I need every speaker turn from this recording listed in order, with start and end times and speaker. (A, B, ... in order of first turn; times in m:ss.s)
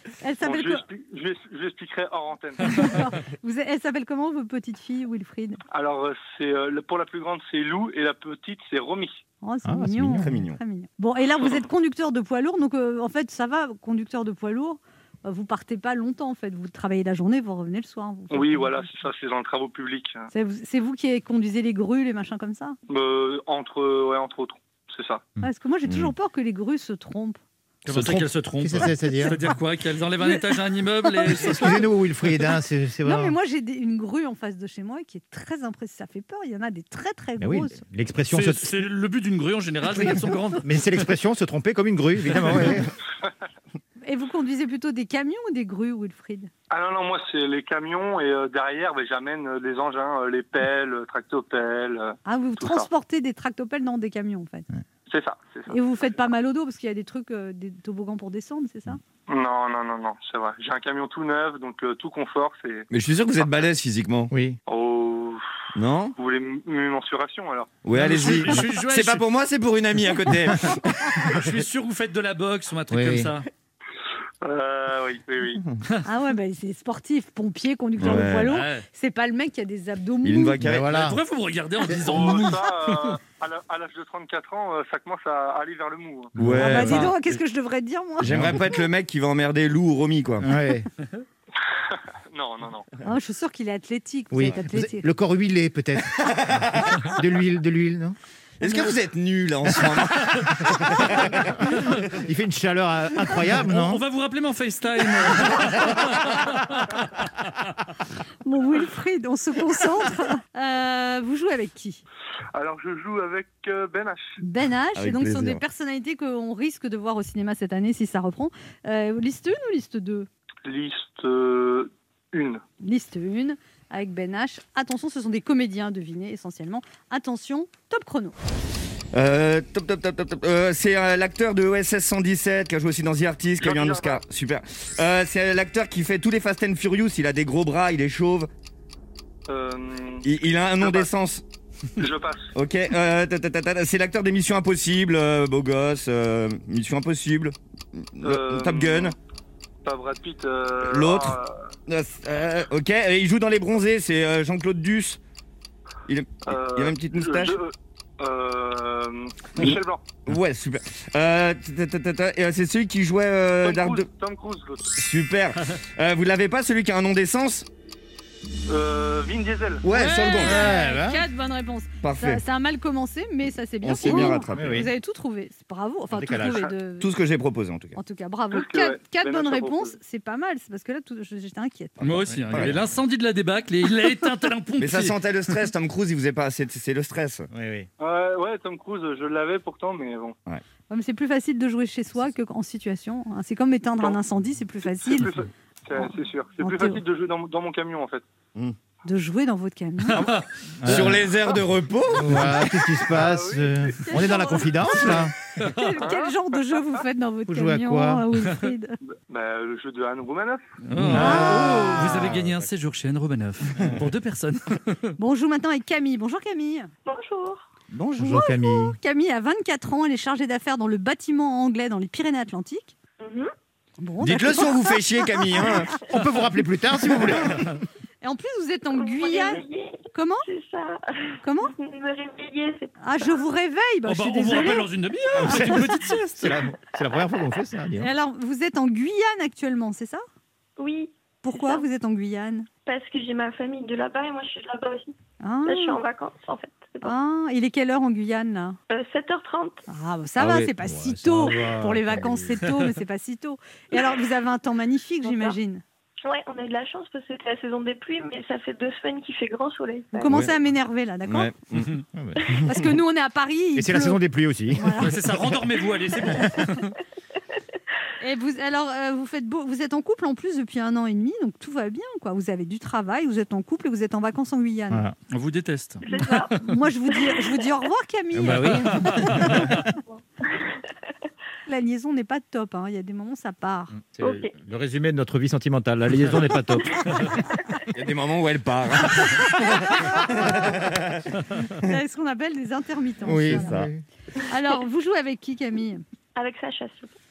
0:00.2-0:00.8 A
0:00.4-0:02.9 B
0:02.6-0:05.6 A
0:05.7-0:09.2 B
0:09.4-0:18.8 A
0:09.6-0:10.4 C
0:10.2-0:10.6 D
0:18.3-0:20.3 B
0:20.3-0:22.8 A
0:22.9-0:25.3 B
0:25.4-0:27.4 A
0:25.9-0:26.1 D
0:27.8-0:31.9 E
0:27.9-0:29.4 C
0:31.1-0:31.5 A
0:31.3-0:33.4 C
0:33.0-0:37.8 A
0:37.4-0:38.8 C
0:38.3-0:41.1 E
0:39.9-0:42.9 C
0:44.0-0:46.5 A
0:46.7-0:52.9 B
0:52.2-0:54.7 A
0:55.1-0:55.8 B
0:55.7-0:59.0 A
0:59.3-1:02.9 B
1:02.9-1:04.3 D
1:04.3-1:04.6 C
1:04.7-1:05.4 B
1:05.8-1:06.2 D
1:06.2-1:07.8 B
1:07.8-1:11.5 D
1:07.9-1:09.2 E
1:11.2-1:13.5 E
1:12.9-1:13.3 C
1:14.4-1:15.6 B
1:16.0-1:20.6 A
1:18.0-1:18.5 D
1:18.5-1:18.8 E
1:20.2-1:20.9 D
1:20.6-1:21.2 C
1:20.9-1:23.2 E
1:21.9-1:22.2 C
1:22.0-1:26.3 B
1:26.4-1:27.1 C
1:26.4-1:27.2 D
1:26.5-1:28.6 A
1:28.2-1:30.5 D
1:28.2-1:28.6 C
1:30.4-1:30.9 C
1:31.9-1:32.9 B
1:33.0-1:35.1 A
1:34.3-1:38.2 C
1:36.1-1:37.2 D
1:38.6-1:41.9 D
1:38.6-1:38.9 A
1:42.2-1:44.0 C
1:43.6-1:47.3 E
1:48.4-1:52.0 A
1:52.6-1:54.4 B
1:54.4-2:00.3 A
1:55.0-1:55.6 D
2:00.6-2:02.6 B
2:02.8-2:08.4 A
2:09.1-2:18.5 D
2:13.6-2:14.2 B
2:19.5-2:20.2 B
2:20.2-2:21.4 D
2:20.8-2:21.1 B
2:22.0-2:22.5 B
2:22.6-2:29.2 D
2:28.2-2:29.2 B
2:29.8-2:31.6 B
2:30.8-2:31.4 D
2:31.9-2:35.2 D
2:36.1-2:37.6 D
2:36.5-2:40.0 B
2:39.6-2:44.1 D
2:43.6-2:44.9 B
2:45.0-2:47.7 D
2:48.7-2:49.9 B
2:49.8-2:50.7 D
2:49.9-2:57.1 A
2:50.4-2:51.2 C
2:52.0-2:52.4 D
2:53.8-2:54.9 D
2:54.1-2:54.9 C
2:56.1-2:56.7 C
2:57.0-2:58.0 D
2:58.0-3:02.0 A
2:58.5-3:00.0 B
3:02.0-3:02.8 D
3:02.0-3:05.2 E
3:02.3-3:02.7 C
3:04.8-3:07.5 D
3:07.5-3:07.9 C
3:08.0-3:10.4 B
3:10.9-3:15.3 A
3:15.0-3:18.2 B
3:16.6-3:17.0 A
3:19.0-3:20.3 A
3:20.1-3:20.4 E
3:20.8-3:21.2 C
3:20.8-3:22.7 D
3:22.1-3:25.3 C
3:23.1-3:24.3 B
3:24.0-3:29.0 A
3:25.6-3:25.9 E
3:26.0-3:26.3 B
3:27.5-3:28.2 C
3:29.2-3:30.6 B
3:30.9-3:35.1 E
3:31.0-3:32.6 C
3:31.1-3:32.3 A
3:35.2-3:36.9 A
3:37.0-3:37.7 F
3:37.9-3:39.0 C
3:38.2-3:43.0 A
3:43.2-3:43.5 F
3:44.0-3:44.9 A
3:44.2-3:45.9 D
3:46.1-3:47.8 C
3:48.2-3:50.4 A
3:49.0-3:53.4 F
3:51.4-3:51.7 A
3:53.0-3:54.9 A
3:54.1-3:56.6 E
3:55.4-3:58.1 C
3:55.5-3:55.9 A
3:58.0-4:00.2 A
4:00.8-4:01.8 F
4:01.4-4:02.7 A
4:02.8-4:07.1 F
4:05.4-4:06.0 A
4:07.0-4:08.8 A
4:08.9-4:09.8 F
4:09.9-4:15.8 A
4:10.4-4:10.7 D
4:10.8-4:12.6 C
4:15.2-4:15.6 F
4:16.2-4:20.4 F
4:20.1-4:21.5 A
4:21.2-4:22.0 D
4:22.1-4:22.6 C
4:22.6-4:24.2 A
4:23.8-4:25.4 C
4:24.8-4:25.2 A
4:25.0-4:26.9 E
4:28.2-4:35.1 A
4:35.3-4:36.6 E
4:36.0-4:36.6 F
4:36.2-4:39.7 A
4:37.1-4:37.6 F
4:38.4-4:39.4 C
4:39.0-4:39.7 E
4:40.1-4:40.7 F
4:41.7-4:43.9 A
4:44.0-4:47.3 C
4:44.2-4:44.5 F
4:47.9-4:51.9 D
4:49.9-4:50.5 A
4:51.8-4:53.8 A
4:53.2-4:54.0 C
4:53.3-4:53.9 D
4:54.5-4:56.0 A
4:56.4-4:57.1 F